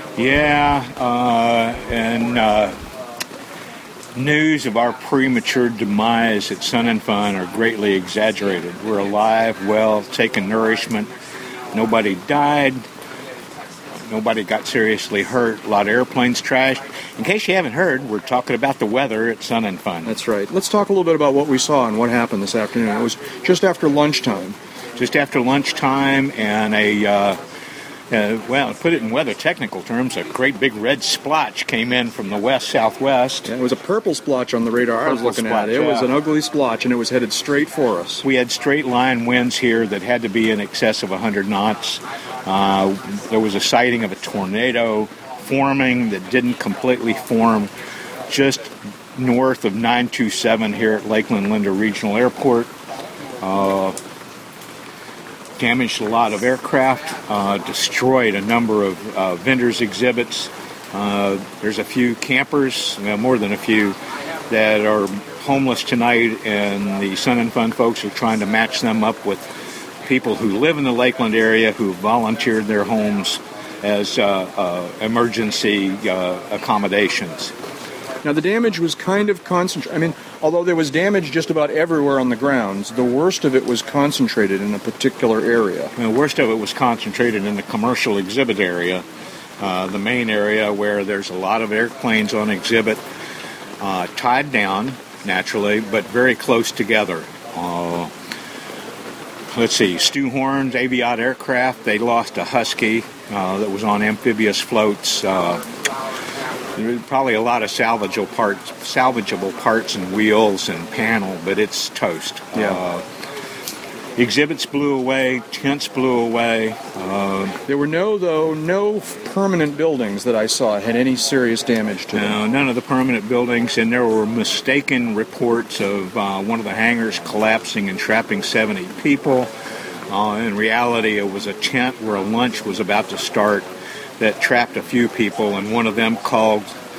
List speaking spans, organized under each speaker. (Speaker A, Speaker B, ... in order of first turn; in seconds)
Speaker A: 0.1-2.8, 4.1-11.1, 11.7-12.8, 14.0-20.1, 24.9-27.4, 28.1-33.5, 35.0-36.1, 38.2-47.7, 48.3-52.7, 53.4-54.0, 55.6-64.0, 64.5-69.4, 70.0-77.5, 86.0-89.0, 89.6-93.0, 93.8-98.1, 99.5-105.6, 106.8-113.0, 114.2-117.6, 122.1-129.5, 130.1-133.7, 134.2-136.7
Speaker B: 20.0-24.6, 33.4-38.2, 78.2-85.9, 112.5-112.8, 117.7-122.4